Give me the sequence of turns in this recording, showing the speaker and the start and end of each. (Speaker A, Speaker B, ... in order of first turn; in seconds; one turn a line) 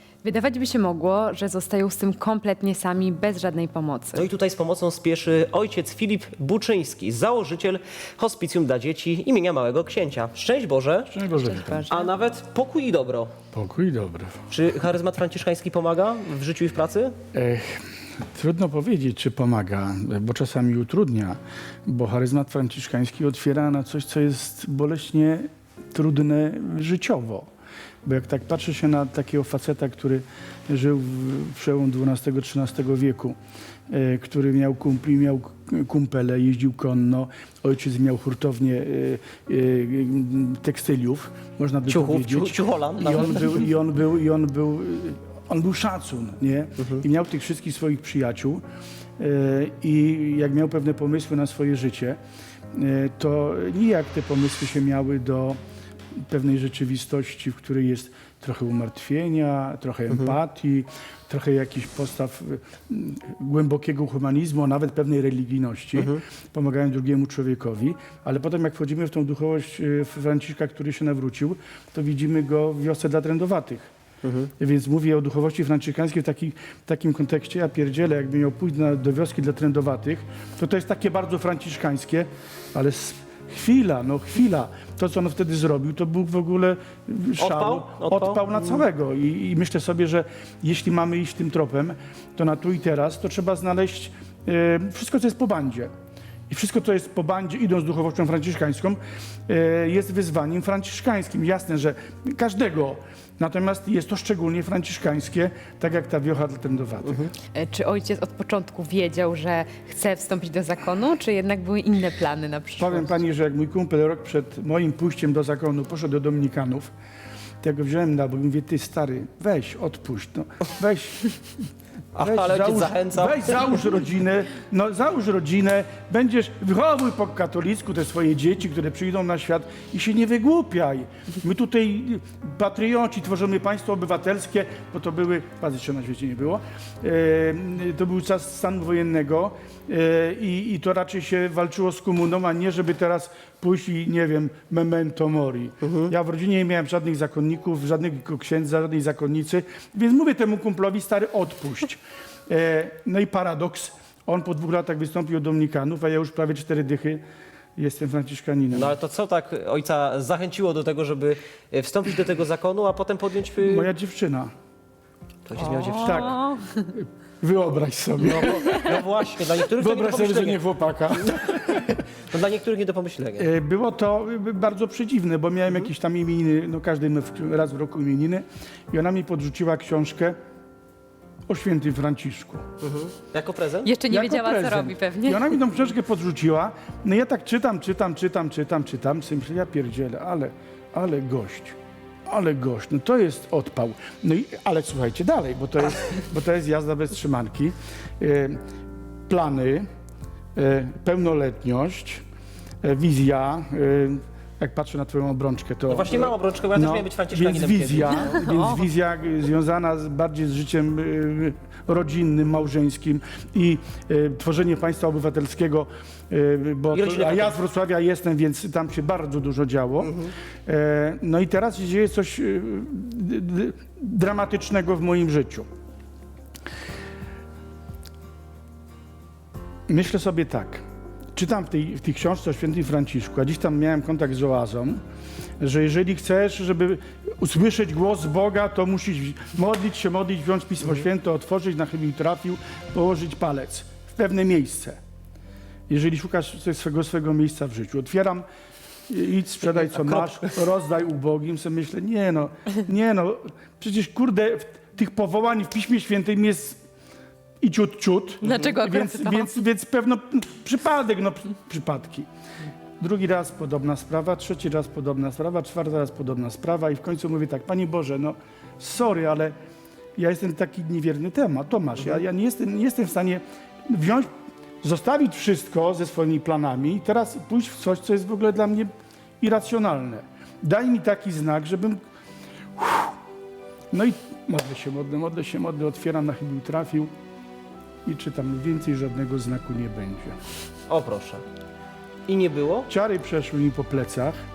Speaker A: 0.2-4.2
Speaker B: 4.1-11.1
Speaker C: 11.1-11.8
Speaker A: 11.4-12.1
Speaker B: 11.9-13.3
Speaker C: 13.5-14.5
Speaker B: 14.5-17.2
Speaker C: 17.3-27.5
Speaker C: 28.0-33.4
Speaker C: 33.9-48.6
Speaker B: 41.9-43.7
Speaker C: 49.2-52.2
Speaker C: 52.7-55.6
Speaker C: 56.1-73.9
Speaker B: 60.1-60.4
Speaker B: 66.0-66.2
Speaker B: 74.2-74.5
Speaker C: 74.6-95.9
Speaker B: 87.4-88.8
Speaker C: 96.5-107.3
Speaker A: 107.5-113.1
Speaker C: 112.8-116.9
Speaker C: 117.6-157.2
Speaker B: 122.1-124.0
Speaker B: 145.8-146.1
Speaker C: 157.7-158.9
Speaker B: 158.7-163.9
Speaker C: 163.6-164.5
Speaker B: 165.4-166.4
Speaker A: 165.6-166.8
Speaker C: 165.9-172.0
Speaker B: 168.2-173.5
Speaker C: 173.3-180.4
Speaker C: 181.5-182.7
Speaker B: 182.8-183.9
Speaker A: 183.8-185.5
Speaker C: 184.1-198.6
Speaker C: 199.3-199.9
Speaker C: 200.5-202.2
Speaker C: 202.8-225.7
Speaker B: 205.9-208.5
Speaker B: 216.9-217.6
Speaker B: 220.0-220.3
Speaker C: 229.9-235.0
Speaker C: 235.6-245.0
Speaker C: 245.9-248.4
Speaker C: 249.1-256.8
Speaker B: 249.9-250.5
Speaker C: 257.6-262.3
Speaker A: 258.4-259.6
Speaker C: 263.0-269.5
Speaker C: 270.1-274.3
Speaker C: 274.8-282.0
Speaker C: 282.8-283.2
Speaker C: 283.9-287.1
Speaker C: 288.0-290.4
Speaker B: 290.9-291.4
Speaker B: 292.3-292.9
Speaker C: 292.9-294.4